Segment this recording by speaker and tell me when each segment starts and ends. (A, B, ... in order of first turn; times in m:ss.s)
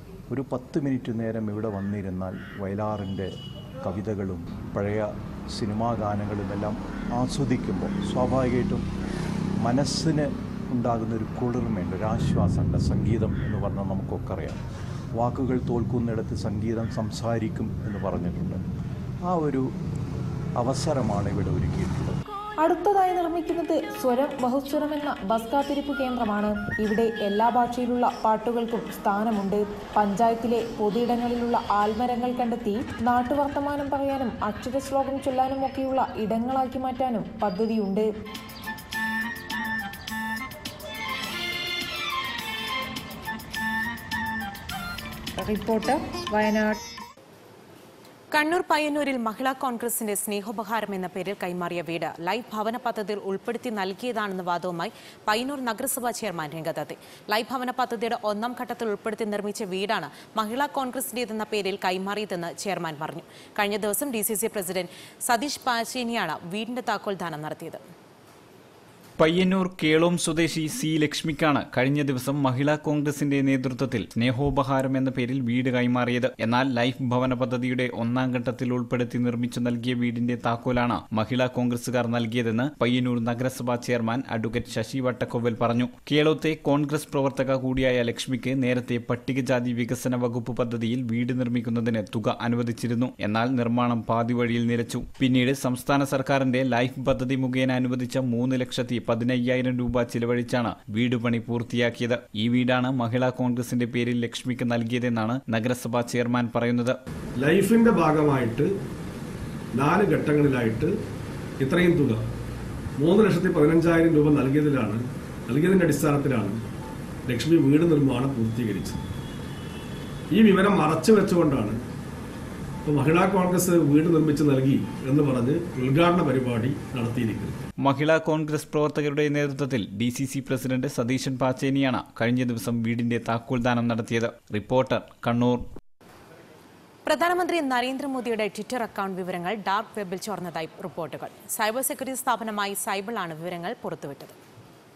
0:00.3-0:03.3 A
0:03.8-0:08.8 A
0:09.6-0:14.6 A
0:15.2-0:18.6 A
0:19.3-0:19.7 A
0:20.6-0:22.2 A
0:22.6-0:38.1 B
0:45.4-0:46.8 B
0:48.3-1:07.8 C
1:09.2-1:47.0 D
1:47.4-1:48.7 E
1:49.8-1:50.9 E
1:51.6-1:52.2 E
1:53.0-1:56.6 E
1:57.3-1:59.0 E
2:00.3-2:01.8 E
2:02.9-2:07.6 E
2:07.8-2:15.7 D
2:17.1-2:24.4 C